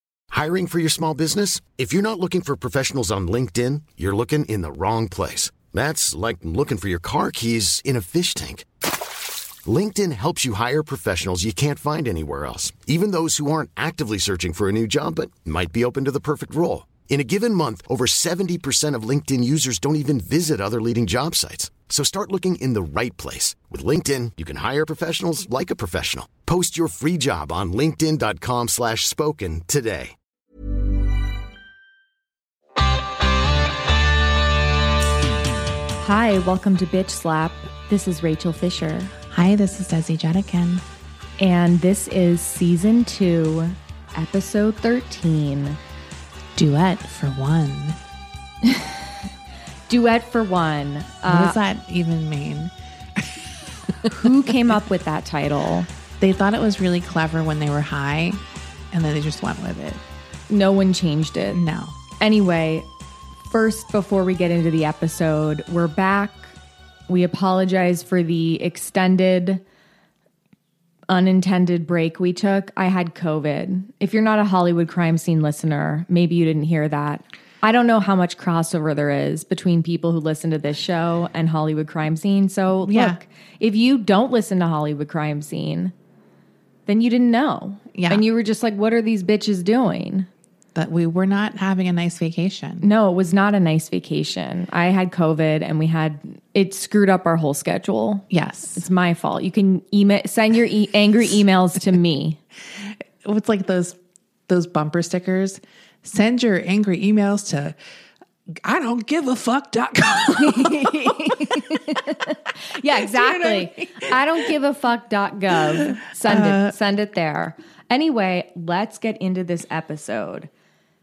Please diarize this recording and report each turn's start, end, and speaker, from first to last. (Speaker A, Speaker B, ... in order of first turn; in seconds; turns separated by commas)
Speaker A: 0.3-8.7, Speaker A: 9.6-30.1, Speaker B: 36.0-39.1, Speaker C: 39.3-40.8, Speaker B: 41.4-45.8, Speaker C: 46.5-48.0, Speaker B: 48.6-49.0, Speaker B: 49.9-51.6, Speaker C: 51.2-53.3, Speaker C: 54.0-54.4, Speaker B: 54.1-55.9, Speaker C: 56.2-60.0, Speaker B: 60.5-61.6, Speaker C: 61.5-62.0, Speaker B: 62.2-62.9, Speaker B: 63.5-66.5, Speaker B: 67.1-69.6, Speaker B: 71.1-85.9, Speaker C: 82.8-83.2, Speaker B: 86.9-90.3, Speaker C: 87.9-88.2, Speaker C: 90.7-92.9, Speaker B: 92.8-102.4, Speaker C: 98.3-98.8, Speaker C: 103.2-103.9, Speaker C: 104.5-107.8, Speaker C: 108.6-112.0, Speaker B: 110.3-120.5, Speaker C: 113.0-114.2, Speaker C: 116.2-116.7